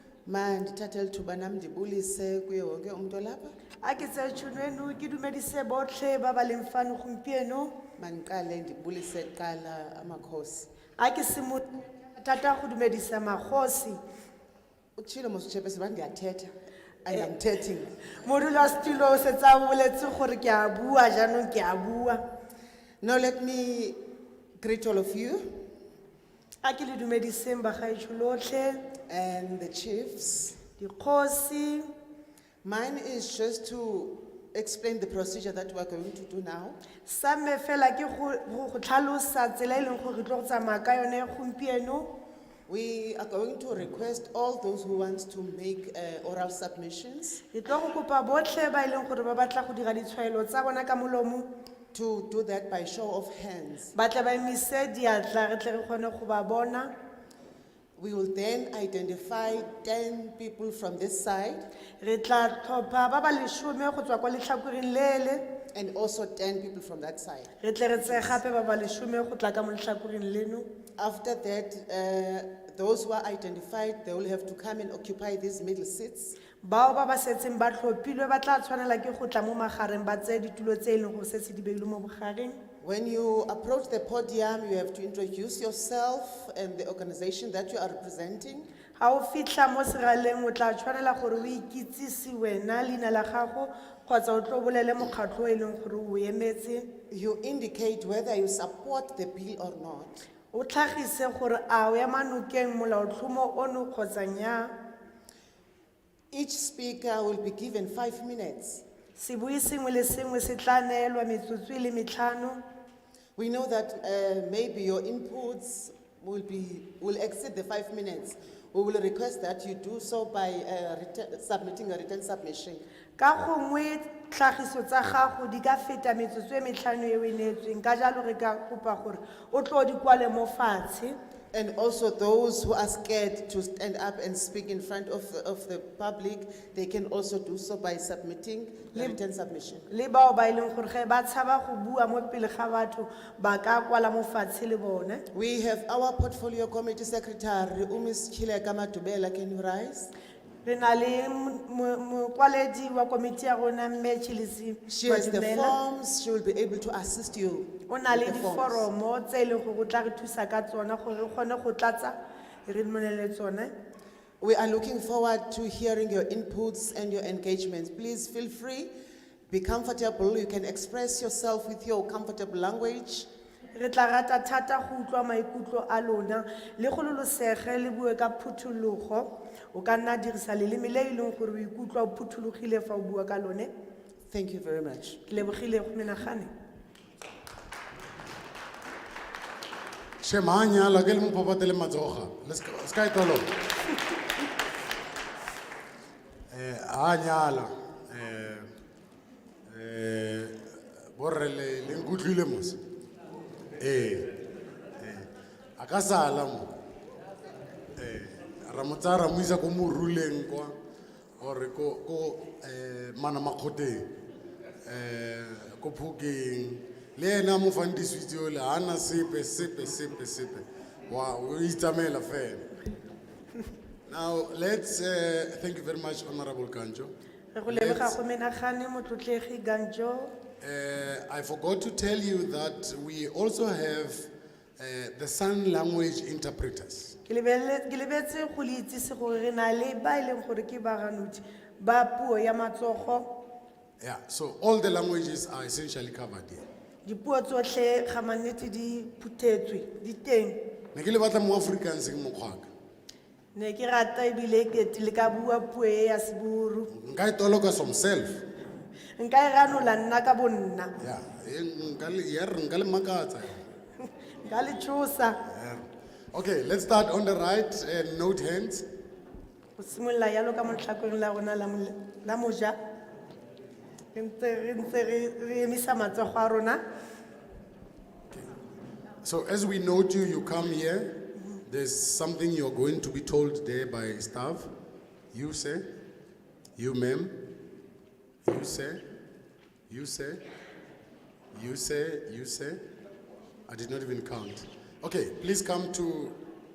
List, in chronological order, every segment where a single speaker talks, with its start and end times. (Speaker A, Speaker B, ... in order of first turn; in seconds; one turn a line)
Speaker A: 0.2-3.5
Speaker B: 3.8-7.7
Speaker A: 8.0-10.7
Speaker B: 11.0-14.0
Speaker A: 14.9-16.5
Speaker A: 17.0-17.9
Speaker B: 18.2-22.2
Speaker A: 23.0-24.0
Speaker A: 24.6-25.4
Speaker B: 26.6-28.8
Speaker A: 29.1-30.6
Speaker B: 30.8-31.9
Speaker A: 32.6-36.8
Speaker B: 37.0-42.1
Speaker A: 42.7-47.4
Speaker B: 47.5-51.5
Speaker A: 51.9-53.9
Speaker B: 53.9-56.9
Speaker A: 58.0-61.6
Speaker B: 62.0-65.4
Speaker A: 65.7-68.4
Speaker B: 67.6-70.7
Speaker A: 71.0-76.3
Speaker B: 76.6-82.6
Speaker A: 82.8-88.7
Speaker B: 89.0-96.9
Speaker A: 97.1-100.2
Speaker B: 100.5-104.7
Speaker A: 106.3-108.8
Speaker B: 109.2-112.6
Speaker A: 113.3-122.8
Speaker B: 123.2-131.2
Speaker A: 131.5-139.8
Speaker B: 139.9-145.2
Speaker A: 145.3-150.1
Speaker B: 150.6-155.7
Speaker A: 154.9-158.9
Speaker B: 157.9-163.7
Speaker A: 164.4-168.9
Speaker A: 169.5-173.3
Speaker B: 173.7-183.7
Speaker A: 184.3-185.2
Speaker B: 185.3-186.5
Speaker C: 190.2-193.6
Speaker C: 196.5-198.7
Speaker C: 199.7-202.8
Speaker C: 203.8-204.3
Speaker C: 205.0-206.7
Speaker C: 207.9-210.8
Speaker C: 211.4-214.1
Speaker C: 214.8-222.7
Speaker C: 224.1-227.1
Speaker B: 227.5-230.3
Speaker C: 227.7-228.2
Speaker C: 230.6-237.2
Speaker B: 237.2-243.3
Speaker C: 244.0-246.7
Speaker B: 247.0-250.6
Speaker C: 250.9-252.7
Speaker B: 253.5-256.9
Speaker C: 256.9-258.4
Speaker B: 259.2-260.9
Speaker C: 261.0-263.6
Speaker B: 264.0-265.4
Speaker C: 265.4-268.9
Speaker B: 269.8-272.8
Speaker B: 274.1-276.8
Speaker C: 279.2-284.7
Speaker C: 285.3-285.8
Speaker C: 286.8-287.4
Speaker C: 288.4-289.0
Speaker C: 289.9-290.4
Speaker C: 291.5-292.8
Speaker C: 293.7-296.4